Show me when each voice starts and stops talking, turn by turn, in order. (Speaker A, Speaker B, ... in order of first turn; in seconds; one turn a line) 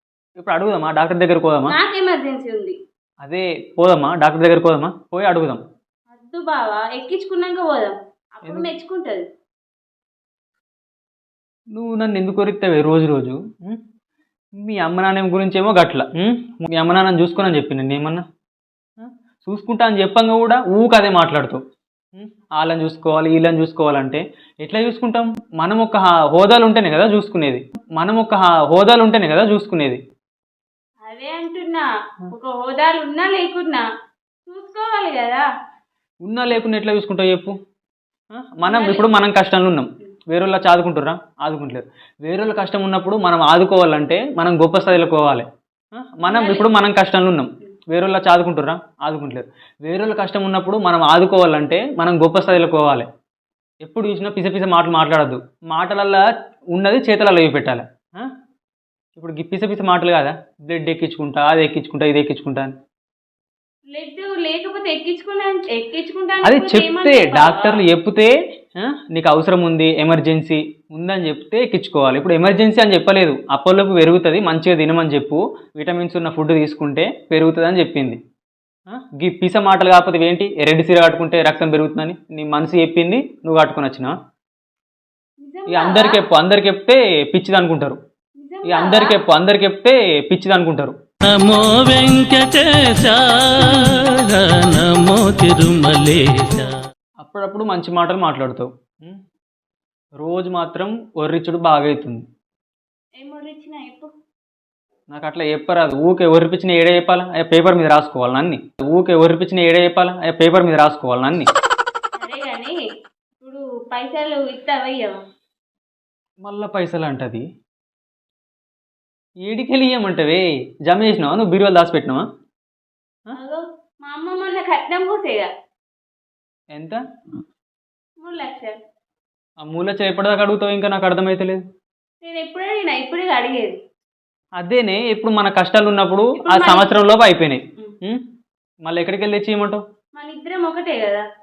Speaker A: 0.4-1.7
Speaker B: 1.7-2.8
Speaker A: 3.2-5.6
Speaker B: 6.1-9.3
Speaker A: 11.7-13.8
Speaker A: 14.6-18.2
Speaker A: 19.0-21.6
Speaker A: 22.1-30.0
Speaker B: 31.0-33.9
Speaker B: 34.5-35.5
Speaker A: 36.2-37.5
Speaker A: 38.3-53.1
Speaker B: 38.7-39.1
Speaker B: 46.3-46.7
Speaker A: 53.8-56.2
Speaker A: 56.7-58.3
Speaker A: 59.2-62.8
Speaker B: 63.9-67.8
Speaker A: 66.4-78.2
Speaker A: 78.9-84.1
Speaker B: 85.4-86.2
Speaker A: 85.7-88.0
Speaker B: 88.4-89.2
Speaker A: 88.7-91.0
Speaker C: 91.2-96.7
Speaker A: 97.2-99.2
Speaker A: 100.2-102.3
Speaker B: 103.2-104.1
Speaker A: 105.1-111.5
Speaker B: 112.2-112.8
Speaker B: 113.4-115.2
Speaker A: 116.4-117.5
Speaker A: 119.5-122.2
Speaker B: 123.3-125.5
Speaker A: 126.7-127.0
Speaker B: 128.2-128.8
Speaker A: 129.6-131.6
Speaker B: 132.2-133.8
Speaker A: 134.6-138.2
Speaker B: 136.4-136.9
Speaker A: 138.8-139.8
Speaker B: 140.2-141.3